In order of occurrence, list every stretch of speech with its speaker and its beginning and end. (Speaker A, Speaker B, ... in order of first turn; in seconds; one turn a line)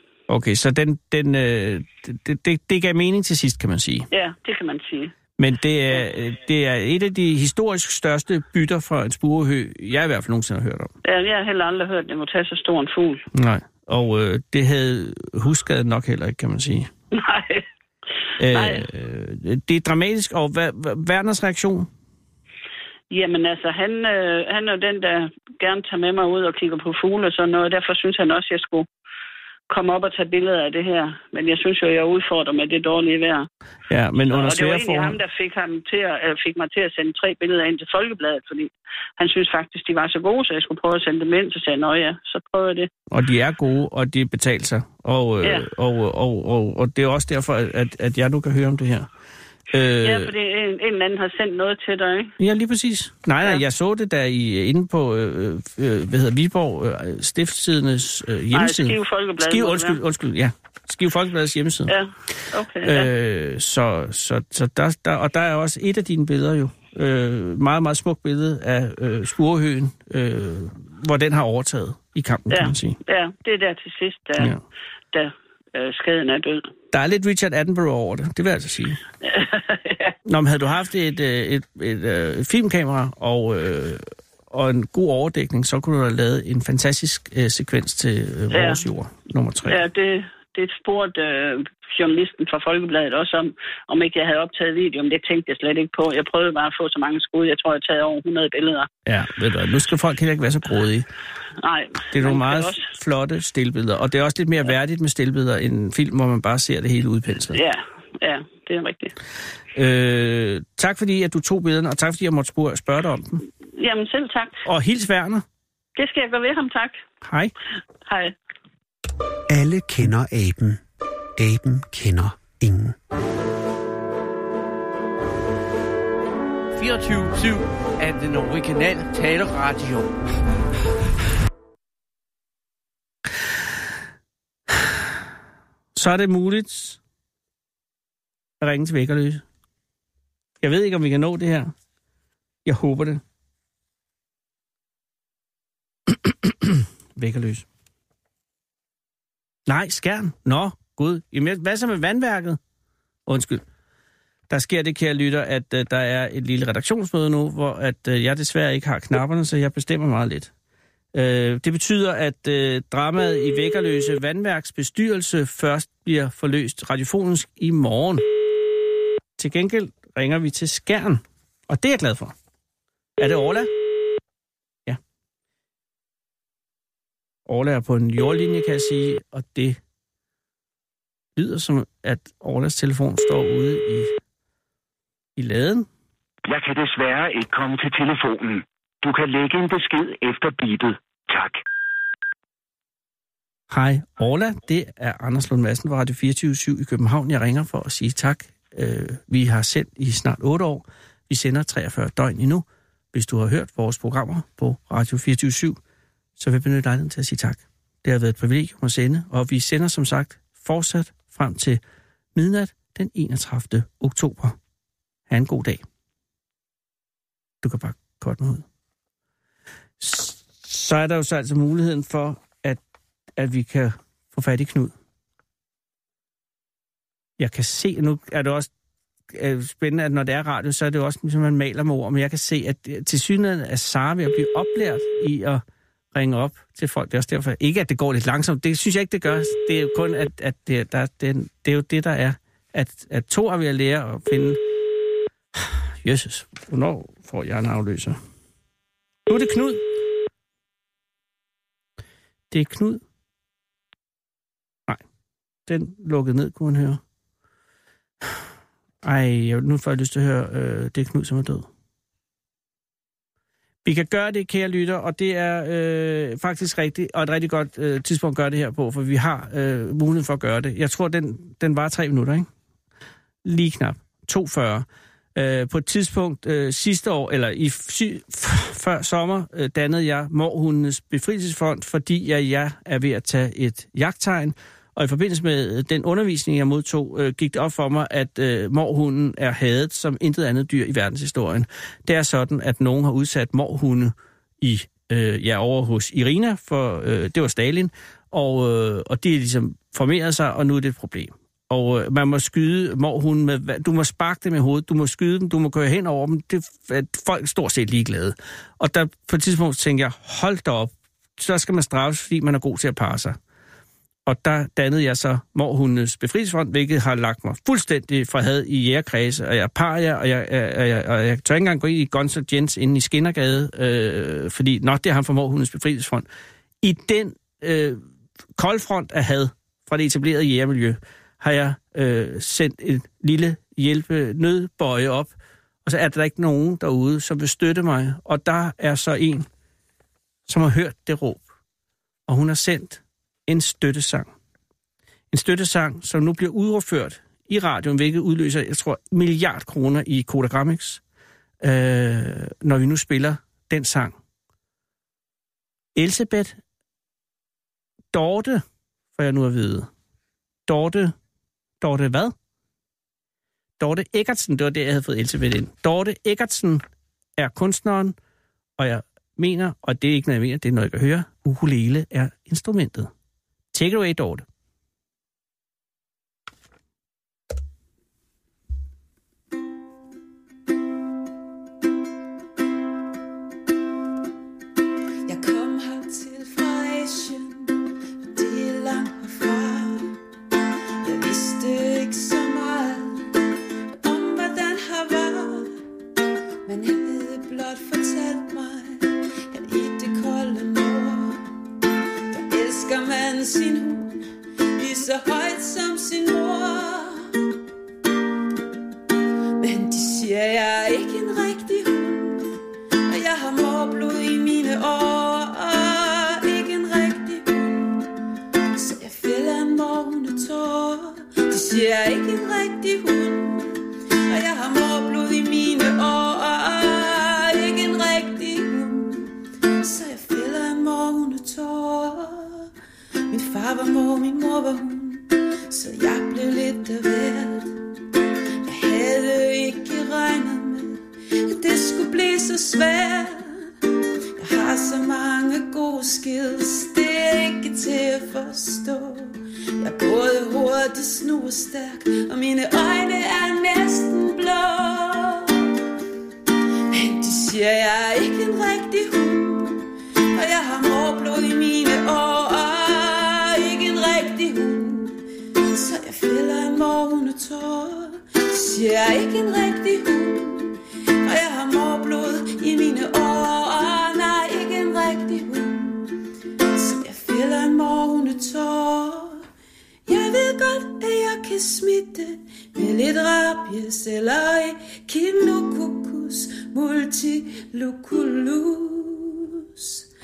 Speaker A: 0.3-4.1
Speaker B: 4.1-5.2
Speaker A: 5.4-10.9
Speaker B: 11.0-13.2
Speaker A: 13.3-16.9
Speaker B: 17.1-17.7
Speaker A: 18.4-21.9
Speaker B: 18.4-18.9
Speaker B: 23.1-28.9
Speaker B: 29.7-33.5
Speaker A: 33.9-35.2
Speaker B: 34.3-42.9
Speaker A: 43.1-49.1
Speaker B: 45.4-45.7
Speaker A: 49.7-50.3
Speaker B: 50.0-52.3
Speaker A: 52.4-61.9
Speaker B: 58.5-60.0
Speaker B: 61.9-63.1
Speaker A: 62.8-73.0
Speaker B: 72.5-74.5
Speaker B: 75.1-76.7
Speaker A: 76.9-79.0
Speaker B: 79.2-80.2
Speaker A: 80.3-89.8
Speaker B: 88.5-88.8
Speaker B: 89.7-98.9
Speaker A: 99.1-101.1
Speaker B: 101.6-102.9
Speaker A: 102.1-107.6
Speaker B: 107.5-109.1
Speaker A: 109.8-113.4
Speaker B: 113.8-114.6
Speaker A: 114.7-115.5
Speaker B: 116.0-117.0
Speaker A: 117.2-117.5
Speaker B: 118.1-118.3
Speaker C: 119.5-120.8
Speaker C: 121.4-123.0
Speaker D: 126.8-130.2
Speaker A: 134.7-135.0
Speaker A: 135.9-137.0
Speaker A: 138.6-139.4
Speaker A: 140.6-141.7
Speaker A: 142.7-143.2
Speaker A: 146.1-147.7
Speaker A: 149.7-152.6
Speaker A: 153.3-153.6
Speaker A: 154.5-160.5
Speaker A: 161.1-168.2
Speaker A: 169.4-172.3
Speaker A: 173.2-173.7
Speaker A: 177.5-179.8
Speaker A: 181.4-184.1
Speaker A: 185.4-185.9
Speaker E: 186.4-191.6
Speaker A: 193.7-205.8
Speaker A: 206.4-211.8
Speaker A: 212.3-214.6
Speaker A: 215.3-215.8
Speaker A: 217.6-218.7
Speaker A: 220.0-222.8
Speaker A: 223.4-224.9
Speaker A: 227.4-228.7
Speaker A: 229.3-244.6
Speaker A: 245.6-248.2
Speaker A: 249.3-249.8
Speaker A: 252.5-253.0
Speaker A: 255.7-257.0
Speaker A: 259.0-261.7
Speaker A: 263.8-272.5
Speaker A: 273.4-313.4
Speaker A: 314.3-326.3
Speaker A: 326.8-328.0
Speaker A: 328.6-335.3
Speaker A: 335.9-339.5
Speaker A: 340.5-341.4
Speaker A: 342.3-344.3
Speaker A: 345.3-351.0
Speaker A: 351.6-354.1
Speaker A: 355.9-356.6
Speaker A: 358.1-358.6
Speaker A: 359.1-359.9
Speaker A: 360.7-361.1
Speaker A: 361.8-362.4
Speaker A: 363.8-366.8
Speaker A: 367.4-368.2
Speaker A: 368.8-373.1
Speaker A: 373.7-374.5
Speaker F: 385.3-387.8
Speaker F: 388.3-390.1
Speaker F: 391.0-393.3
Speaker F: 394.0-395.7
Speaker F: 396.7-401.5
Speaker F: 402.3-407.3
Speaker F: 409.6-412.5
Speaker F: 413.1-418.1
Speaker F: 418.8-432.7
Speaker F: 433.3-437.8
Speaker F: 438.6-443.6
Speaker F: 444.4-455.7
Speaker F: 456.9-476.1
Speaker F: 476.7-479.4
Speaker F: 480.1-490.1